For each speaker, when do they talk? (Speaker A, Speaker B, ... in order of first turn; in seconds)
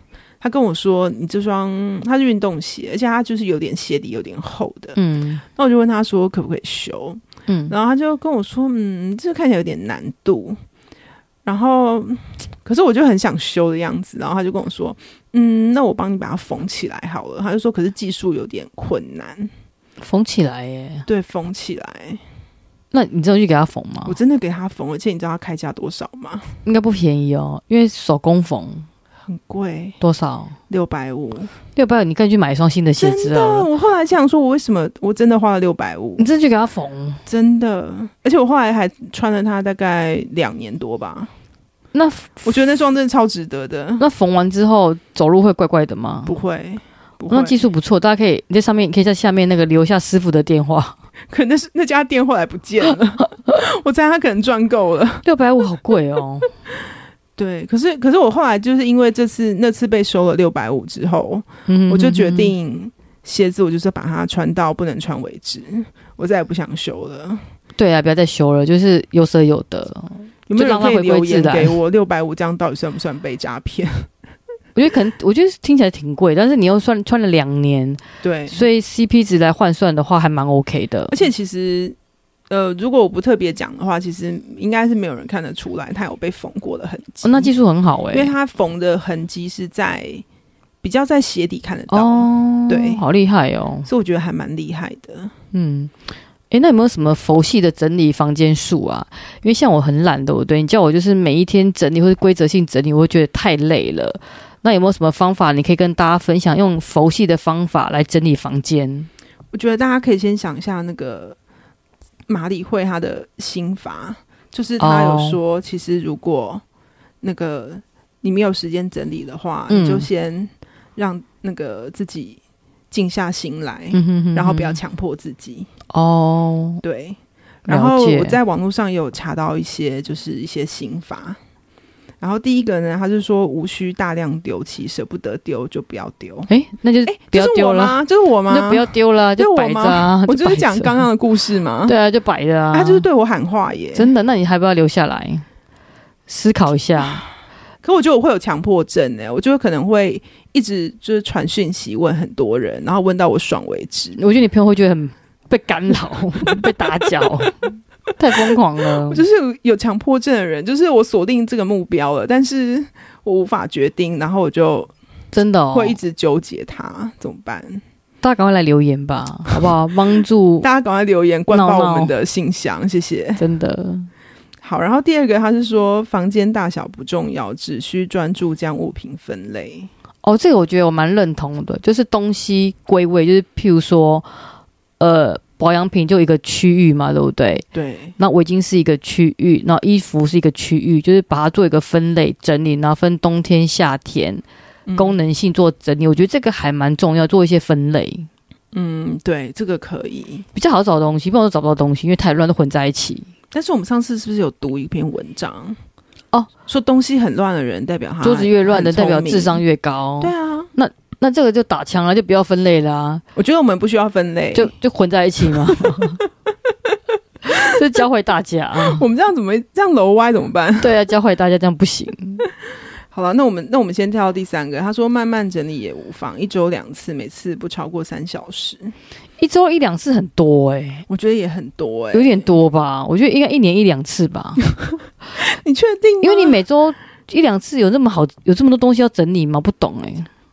Speaker A: 0.4-5.0, 5.5-10.6, 11.4-19.5, 21.1-22.2, 24.0-26.4, 29.2-30.0, 30.7-31.5, 33.0-36.3, 37.2-41.3, 42.5-44.0, 46.2-47.6, 51.3-55.2, 57.4-67.4, 70.5-74.1, 78.2-78.6, 81.1-82.0, 82.5-87.5, 88.1-90.2, 90.8-93.0, 93.8-95.3, 109.5-111.4, 112.3-116.6, 117.2-122.4, 122.9-125.7, 126.8-131.4, 132.2-136.5, 137.1-141.9, 142.7-144.1, 147.8-154.2, 159.1-164.9, 165.7-167.8, 170.6-173.4, 174.6-179.9, 187.7-188.1, 194.8-195.2, 198.7-200.4, 203.5-205.8, 206.7-209.6, 210.2-210.7, 213.3-214.7, 218.8-220.9, 223.1-228.9, 231.1-232.5, 235.4-236.6
Speaker B: 5.0-5.4, 7.5-7.7, 20.0-21.1, 22.9-24.1, 26.6-28.9, 30.0-30.6, 31.8-33.7, 36.2-37.2, 41.9-42.8, 44.0-46.3, 47.3-51.0, 55.2-56.5, 61.7-62.5, 67.8-71.8, 74.8-81.2, 87.2-88.3, 91.9-93.9, 95.5-95.9, 96.5-109.1, 114.8-115.4, 119.7-120.1, 123.9-124.8, 125.9-126.8, 127.7-128.4, 136.5-141.1, 141.8-143.1, 143.9-145.4, 146.3-147.2, 154.2-159.2, 165.3-166.0, 168.2-170.7, 171.5-172.1, 173.4-174.1, 180.2-184.3, 185.0-187.6, 188.2-194.4, 194.9-198.3, 200.5-203.3, 208.2-213.2, 214.5-216.2, 217.5-219.0, 220.8-222.4, 229.4-231.1, 232.1-234.6, 236.2-240.3